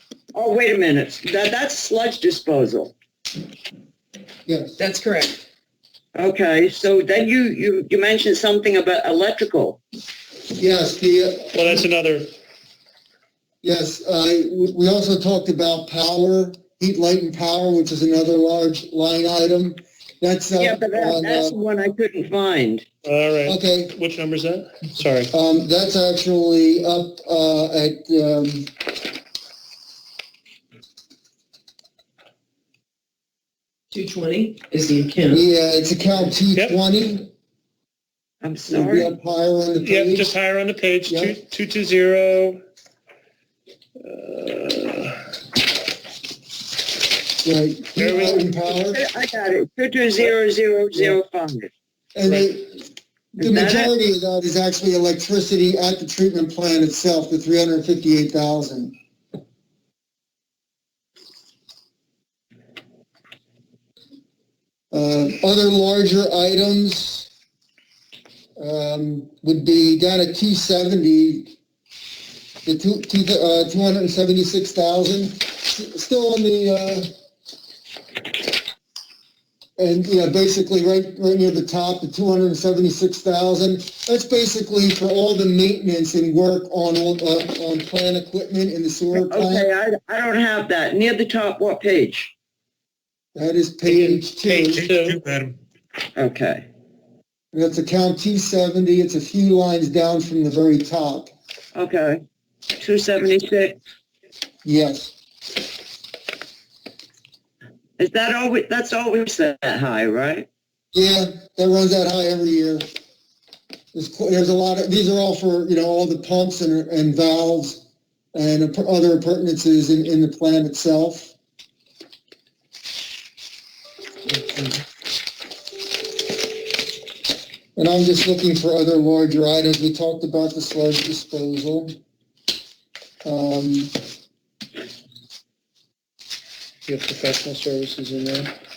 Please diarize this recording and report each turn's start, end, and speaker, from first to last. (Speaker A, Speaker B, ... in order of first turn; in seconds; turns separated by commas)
Speaker A: 0.3-3.0, Speaker B: 4.5-4.8, Speaker C: 4.8-5.4, Speaker A: 6.2-9.8, Speaker B: 10.6-11.8, Speaker D: 11.5-12.3, Speaker B: 13.6-21.6, Speaker A: 20.6-22.9, Speaker D: 23.0-25.3, Speaker B: 23.5-23.9, Speaker B: 25.3-28.7, Speaker C: 33.9-35.4, Speaker B: 35.3-37.3, Speaker A: 38.4-39.1, Speaker B: 38.7-40.3, Speaker D: 39.8-42.6, Speaker B: 41.1-41.3, Speaker D: 44.0-45.2, Speaker B: 47.4-49.0, Speaker D: 48.0-48.5, Speaker A: 48.7-51.7, Speaker B: 50.9-51.2, Speaker B: 52.1-52.9, Speaker A: 53.4-53.9, Speaker B: 53.4-58.9, Speaker B: 64.9-67.3, Speaker B: 68.6-71.5, Speaker B: 72.7-77.1, Speaker B: 79.8-89.7, Speaker A: 89.1-92.3, Speaker B: 93.3-95.1, Speaker D: 93.9-95.6, Speaker A: 96.2-96.7, Speaker B: 97.5-101.3, Speaker A: 101.8-102.2, Speaker A: 102.8-103.8, Speaker B: 104.7-105.1, Speaker A: 108.0-110.5, Speaker B: 110.9-112.9, Speaker B: 113.9-117.8, Speaker B: 118.3-121.3, Speaker B: 124.3-124.7, Speaker B: 127.8-132.0, Speaker B: 133.2-133.9, Speaker D: 136.9-138.5